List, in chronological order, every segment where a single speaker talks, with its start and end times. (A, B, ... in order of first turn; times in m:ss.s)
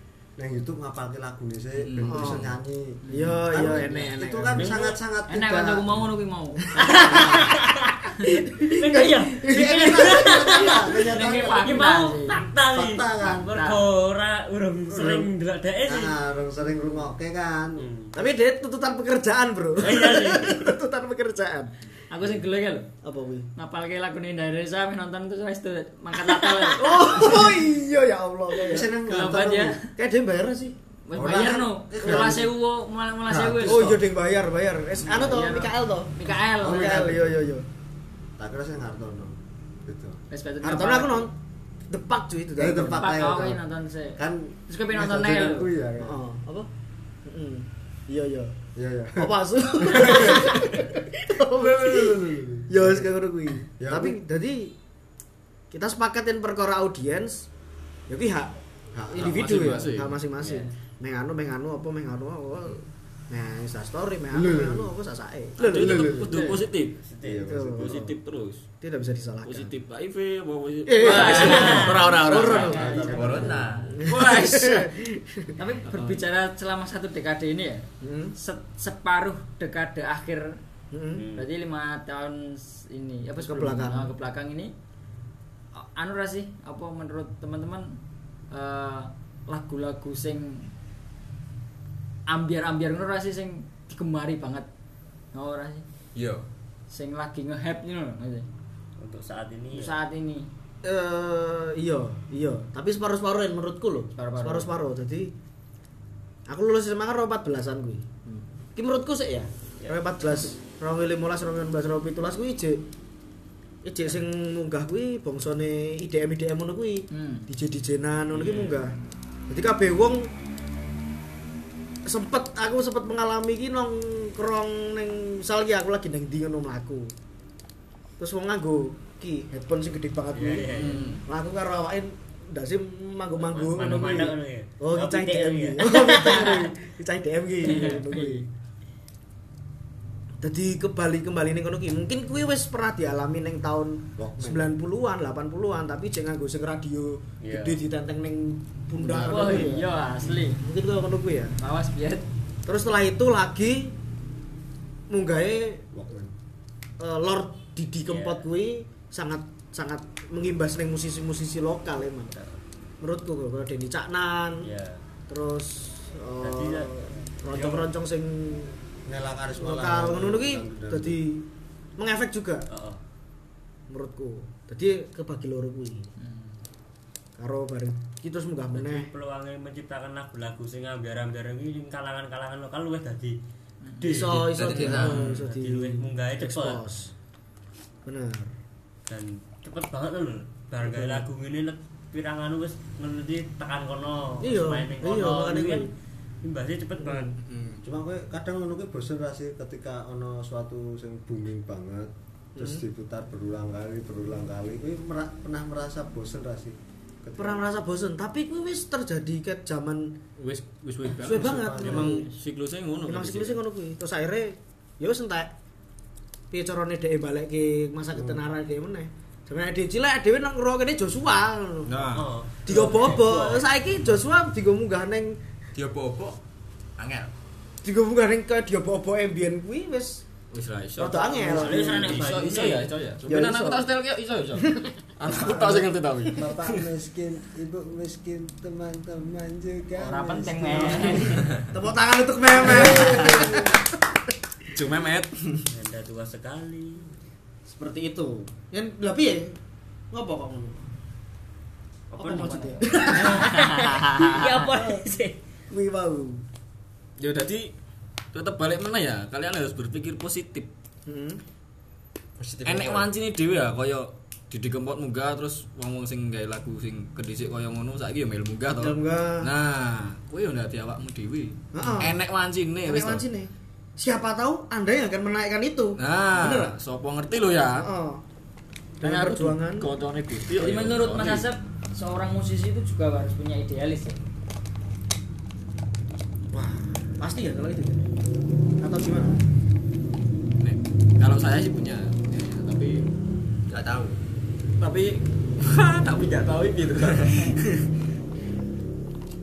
0:00.4-0:06.1 A
0:01.8-0:02.5 B
0:02.1-0:02.4 C
0:03.0-0:03.4 D
0:03.1-0:04.6 C
0:04.6-0:05.0 E
0:05.3-0:07.4 D
0:06.7-0:16.1 E
0:06.8-0:07.2 C
0:06.8-0:07.5 A
0:08.4-0:10.4 C
0:09.5-0:11.8 A
0:11.0-0:12.4 D
0:12.7-0:13.6 A
0:13.5-0:13.9 D
0:14.9-0:15.3 A
0:15.8-0:17.9 A
0:17.8-0:18.1 E
0:18.1-0:21.7 C
0:19.8-0:20.6 E
0:22.1-0:22.9 D
0:23.0-0:23.5 C
0:23.6-0:27.2 D
0:26.4-0:26.7 E
0:26.8-0:28.9 C
0:28.6-0:29.8 A
0:29.0-0:29.9 D
0:30.0-0:30.7 C
0:31.0-0:33.9 D
0:31.1-0:32.5 A
0:33.3-0:34.0 A
0:33.6-0:37.6 C
0:35.0-0:37.1 D
0:36.6-0:37.4 A
0:38.4-0:40.2 A
0:40.3-0:41.3 D
0:40.6-0:41.3 C
0:41.9-0:43.2 C
0:42.6-0:43.6 A
0:43.0-0:45.7 D
0:44.2-0:46.1 A
0:46.0-0:46.7 C
0:47.2-0:48.6 C
0:48.8-0:53.1 A
0:49.1-0:52.1 C
0:52.7-0:54.7 C
0:53.8-0:54.2 A
0:55.7-0:57.5 C
0:58.1-0:58.5 C
0:58.9-0:59.7 A
0:59.1-1:06.1 C
0:59.2-1:00.2 B
1:00.4-1:00.7 E
1:04.3-1:04.9 A
1:05.6-1:07.0 B
1:05.6-1:06.4 A
1:06.3-1:07.4 E
1:07.2-1:08.0 A
1:07.5-1:08.1 C
1:07.5-1:08.6 B
1:08.8-1:09.7 C
1:09.4-1:12.7 B
1:10.8-1:13.2 C
1:11.0-1:13.5 D
1:11.0-1:12.3 E
1:12.3-1:13.7 A
1:12.3-1:14.0 F
1:13.8-1:15.5 C
1:14.0-1:14.9 B
1:15.6-1:17.8 D
1:15.9-1:16.2 B
1:18.0-1:18.3 C
1:18.4-1:20.5 D
1:20.9-1:21.2 C
1:21.1-1:21.5 E
1:21.3-1:24.7 D
1:23.4-1:24.1 C
1:25.7-1:28.0 D
1:28.5-1:30.7 D
1:32.3-1:34.7 D
1:35.3-1:35.8 D
1:36.1-1:36.4 F
1:36.9-1:38.4 D
1:39.0-1:39.9 E
1:39.7-1:40.5 D
1:40.8-1:45.3 C
1:44.2-1:44.6 D
1:46.5-1:48.1 C
1:48.7-1:52.8 C
1:53.8-1:58.9 C
1:57.1-1:57.5 D
1:59.5-2:00.3 C
2:02.0-2:07.1 C
2:08.2-2:18.5 C
2:10.3-2:11.2 E
2:10.7-2:11.2 B
2:13.4-2:16.7 E
2:17.6-2:18.4 D
2:20.4-2:31.6 C
2:24.2-2:24.7 A
2:27.4-2:27.8 E
2:29.1-2:30.6 D
2:31.6-2:32.3 D
2:32.6-2:33.9 C
2:35.1-2:35.8 C
2:35.9-2:36.3 A
2:37.0-2:42.4 C
2:38.1-2:38.4 E
2:43.0-2:44.6 C
2:44.6-2:45.0 E
2:45.3-2:48.7 C
2:46.4-2:47.0 E
2:49.0-2:51.2 A
2:49.6-2:52.6 C
2:52.7-2:53.0 E
2:53.9-2:56.1 C
2:56.2-2:56.5 D
2:57.4-2:59.1 C
2:58.7-3:03.4 E
3:03.8-3:04.1 D
3:04.0-3:06.8 E
3:04.0-3:07.1 C
3:04.4-3:05.3 F
3:08.0-3:08.5 C
3:09.0-3:15.9 E
3:10.8-3:11.2 C
3:14.4-3:15.9 C
3:16.4-3:17.4 E
3:17.0-3:17.3 C
3:17.4-3:17.8 B
3:17.8-3:27.6 A
3:22.6-3:22.8 C
3:27.4-3:30.2 C
3:30.4-3:33.6 B
3:31.2-3:32.3 C
3:31.3-3:32.2 A
3:33.0-3:35.5 C
3:36.5-3:42.0 C
3:41.9-3:43.4 B
3:42.1-3:43.4 E
3:42.6-3:45.4 C
3:45.7-3:46.4 F
3:47.0-3:47.3 F
3:47.8-3:50.2 C
3:50.5-3:56.8 B
3:51.0-3:52.2 C
3:51.4-3:52.9 E
3:53.3-3:53.9 C
3:54.6-3:55.7 C
3:55.3-4:01.2 A
3:59.9-4:01.5 D
4:00.7-4:03.8 C
4:02.6-4:03.8 A
4:04.7-4:05.7 B
4:05.7-4:07.1 E
4:07.7-4:09.6 C
4:10.1-4:10.8 C
4:12.1-4:13.6 C
4:12.1-4:14.6 D
4:12.2-4:15.4 E
4:14.3-4:15.0 C
4:15.7-4:16.4 C
4:17.2-4:17.7 B
4:18.3-4:20.7 B
4:21.0-4:21.4 C
4:22.4-4:23.1 F
4:22.6-4:33.2 B
4:28.8-4:29.5 C
4:31.7-4:32.2 C
4:32.8-4:36.7 C
4:36.0-4:37.9 B
4:37.8-4:38.2 C
4:39.0-4:39.9 C
4:39.0-4:41.5 B
4:40.5-4:44.2 D
4:46.5-4:48.0 C
4:48.8-4:49.4 C
4:50.6-4:53.1 B
4:53.7-4:54.2 F
4:54.8-4:57.8 B